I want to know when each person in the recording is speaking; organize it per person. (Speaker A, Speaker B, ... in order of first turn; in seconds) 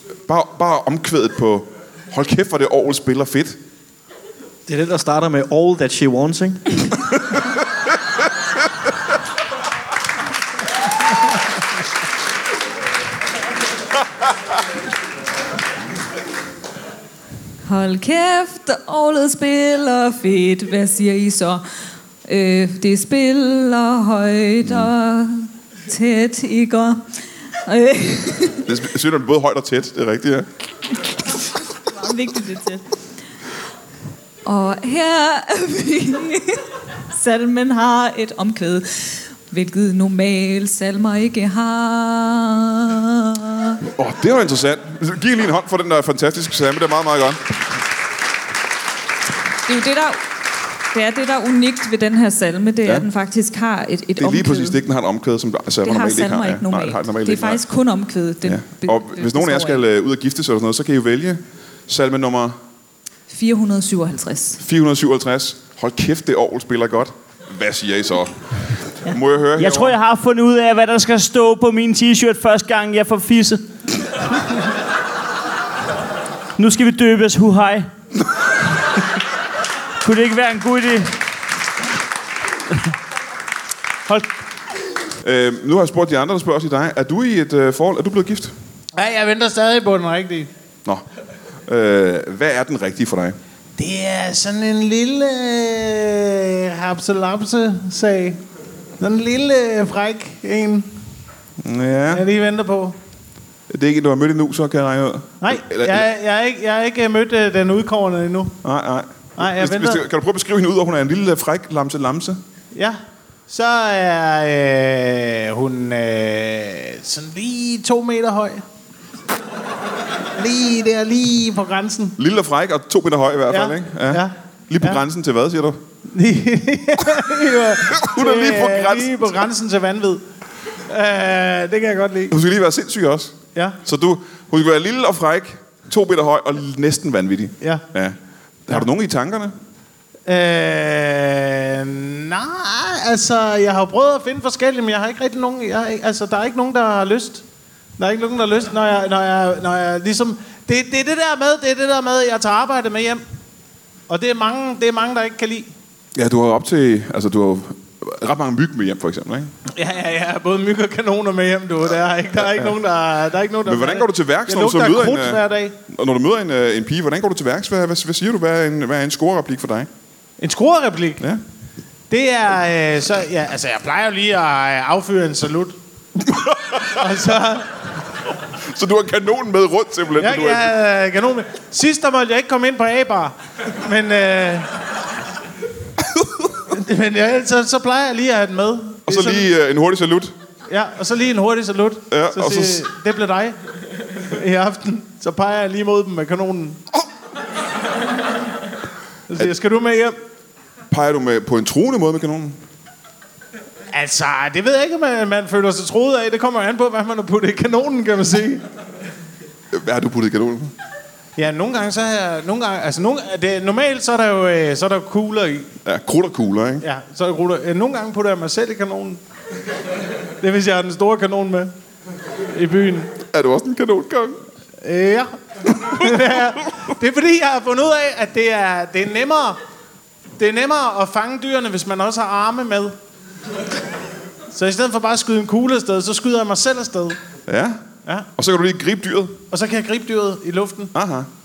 Speaker A: 0.3-3.6, 24.6-24.9, 28.6-30.5, 43.8-47.4, 54.2-57.6, 58.4-62.6, 64.6-69.9, 85.2-88.5, 91.7-93.4, 101.6-102.2, 103.7-106.1, 108.6-112.4, 122.2-125.8, 127.8-129.5, 132.3-139.5, 156.1-159.5, 162.4-162.8, 163.6-169.9, 176.2-176.9, 178.5-180.7, 189.1-190.3, 192.1-192.8, 200.9-202.6, 209.7-210.7, 215.8-216.8, 223.2-224.4, 225.8-226.2, 237.5-237.8, 238.3-239.3, 240.9-241.3
Speaker B: 4.7-6.9
Speaker C: 17.6-21.6, 22.2-27.1, 27.6-28.7, 31.8-32.8, 34.4-43.8, 49.7-50.2, 50.9-54.8, 55.8-59.8, 63.3-64.6
Speaker D: 69.5-73.6, 76.6-77.9, 80.0-81.1
Speaker E: 89.0-90.5, 93.8-98.4, 99.0-100.9, 102.1-103.0, 105.4-108.5, 109.4-110.0, 112.7-118.6, 120.3-122.2, 123.5-125.0, 126.1-130.2, 130.9-132.3, 140.2-147.4, 148.0-153.2, 154.1-155.7, 159.7-165.8, 170.4-171.2, 172.1-175.8, 176.8-177.7, 180.2-184.7, 186.7-189.5, 190.7-193.6, 194.3-196.8, 199.3-200.2, 203.9-208.6, 211.3-215.7, 216.8-219.2, 220.4-221.7, 222.5-223.1, 224.8-229.6, 230.4-232.9, 234.5-237.2, 239.5-240.9